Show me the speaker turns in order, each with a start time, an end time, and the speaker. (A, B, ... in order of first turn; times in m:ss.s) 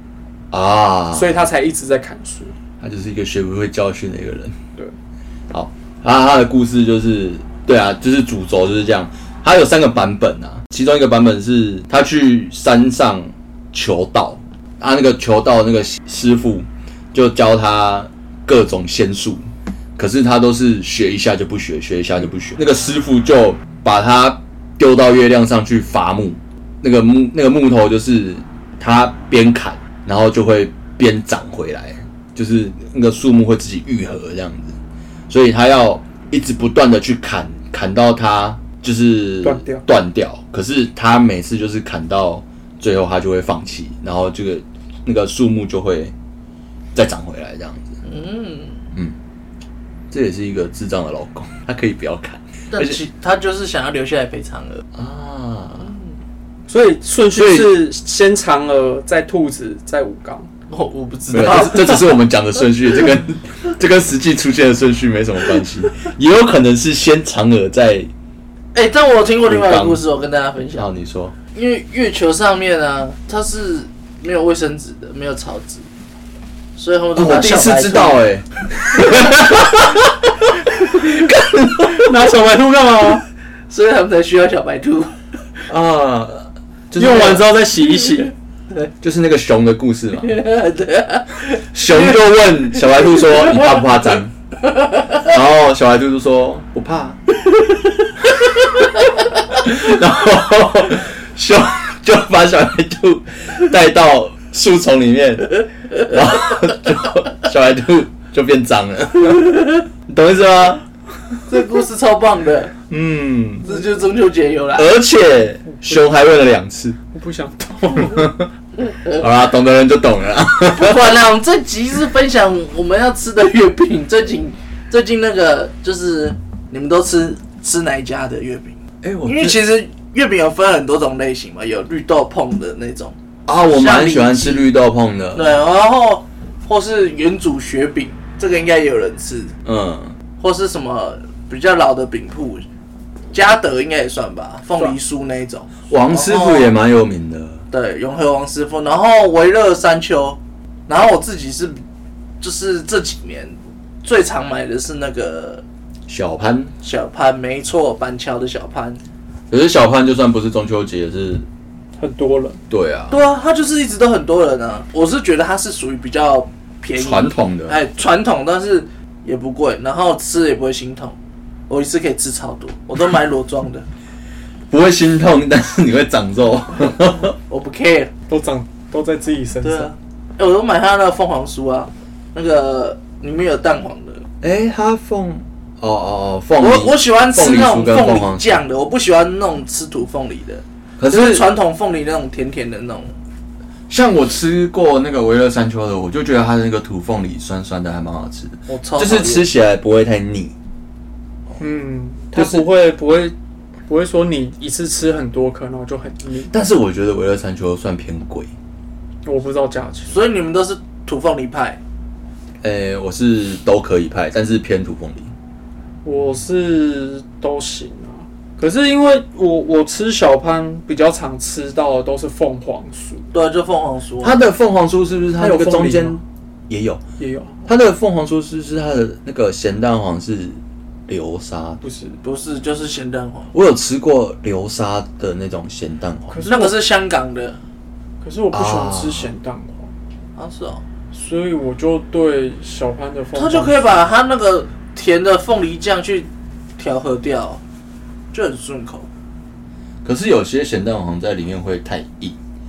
0:00.5-0:01.3 A
0:01.1-0:02.5 B
0:02.8-0:04.5 A
0:05.5-0:19.4 A
0:20.0-0:34.8 A
0:35.3-0:46.1 A
0:39.4-0:39.8 B
0:46.9-0:48.0 A
0:48.0-0:48.8 C
0:50.1-0:53.0 A
0:52.7-0:54.8 C
0:54.9-0:55.9 A
0:56.7-1:00.5 B
0:57.3-0:57.8 A
1:00.7-1:02.1 C
1:01.3-1:08.1 A
1:08.8-1:10.9 C
1:09.4-1:10.0 A
1:10.8-1:11.3 A
1:11.5-1:15.9 C
1:16.8-1:18.2 C
1:17.2-1:22.2 A
1:21.8-1:23.2 B
1:23.7-1:25.2 C
1:25.7-1:27.4 A
1:26.9-1:28.3 B
1:29.0-1:30.4 A
1:30.2-1:32.0 C
1:31.5-1:34.3 A
1:35.1-1:37.2 A
1:38.3-1:50.8 A
1:51.5-1:52.7 C
1:52.9-1:53.7 A
1:53.6-1:54.9 C
1:54.8-1:57.0 A
1:55.7-1:56.1 B
1:57.1-1:58.3 B
1:58.0-1:58.5 A
1:59.1-2:01.2 A
2:00.7-2:13.2 C
2:09.0-2:09.6 A
2:13.5-2:15.6 A
2:13.7-2:14.7 C
2:15.3-2:19.5 C
2:19.6-2:20.1 A
2:20.4-2:22.6 C
2:23.3-2:26.7 C
2:25.9-2:27.6 A
2:27.7-2:31.8 C
2:32.4-2:35.6 C
2:36.1-2:36.7 A
2:36.8-2:39.0 C
2:39.5-2:41.4 A
2:42.0-2:42.6 B
2:42.7-2:43.2 A
2:43.1-2:51.2 C
2:46.9-2:47.8 A
2:51.7-2:53.9 C
2:54.7-2:57.3 A
2:57.5-2:58.1 C
2:58.3-2:59.9 B
2:59.6-3:04.2 C
3:04.4-3:08.6 A
3:06.6-3:13.1 C
3:11.0-3:11.5 A
3:13.9-3:20.5 A
3:18.7-3:19.4 C
3:21.6-3:23.3 B
3:22.3-3:22.6 A
3:23.9-3:26.5 B
3:26.5-3:28.5 A
3:29.2-3:30.2 B
3:30.1-3:31.8 C
3:32.6-3:35.3 A
3:36.0-3:43.3 B
3:43.3-3:44.4 C
3:44.2-3:47.0 A
3:45.4-3:46.2 B
3:47.2-3:47.6 B
3:47.6-3:51.8 A
3:51.8-3:52.2 B
3:52.2-3:53.5 C
3:53.5-3:56.4 A
3:56.3-3:56.8 B
3:56.4-3:57.6 C
3:58.2-3:59.9 B
3:58.5-3:59.3 A
4:00.4-4:00.8 C
4:01.1-4:04.0 B
4:03.3-4:07.6 C
4:08.3-4:09.1 C
4:10.0-4:12.4 A